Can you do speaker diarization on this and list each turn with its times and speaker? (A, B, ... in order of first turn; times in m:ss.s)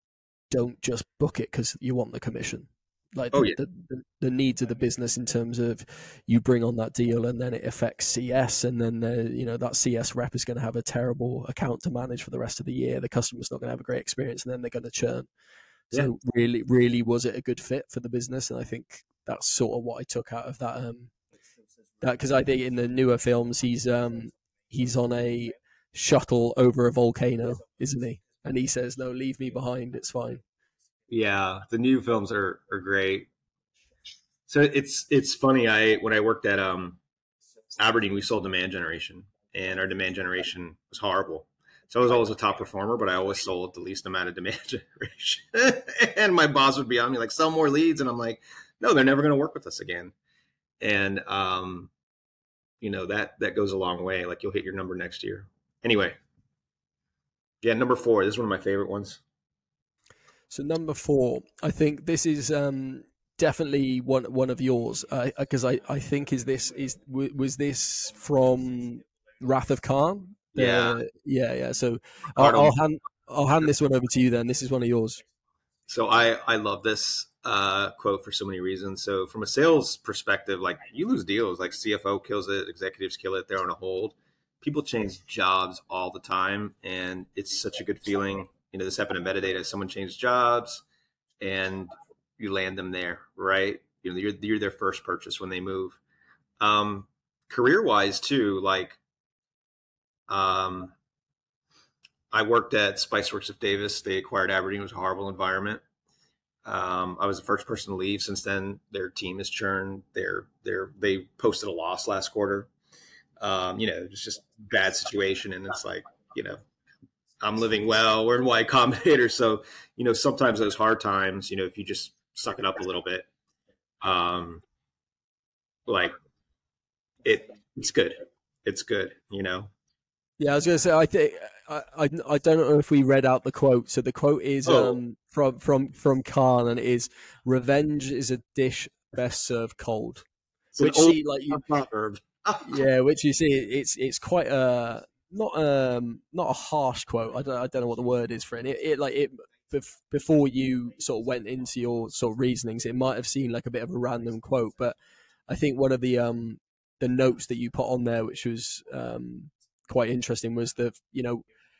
0:00.5-0:15.3 A
0:03.3-0:03.6 B
0:15.9-0:21.1 A
0:22.0-0:30.4 A
0:31.1-0:33.3 B
0:34.5-0:37.0 B
0:37.8-0:50.1 B
0:50.8-0:51.9 B
0:52.8-0:56.2 B
0:57.6-0:59.2 B
1:00.5-1:15.2 A
1:10.5-1:11.0 B
1:12.4-1:12.7 B
1:15.9-1:30.8 B
1:31.4-1:36.0 B
1:36.6-1:39.0 B
1:40.3-1:40.9 B
1:42.3-1:45.8 B
1:46.6-1:52.7 B
1:53.4-1:56.6 B
1:57.4-2:03.3 B
2:04.0-2:04.6 B
2:05.9-2:06.1 B
2:07.2-2:09.7 B
2:10.4-2:20.2 A
2:14.6-2:15.0 B
2:20.7-2:22.8 B
2:20.8-2:21.6 A
2:22.6-2:34.9 A
2:35.5-2:41.4 A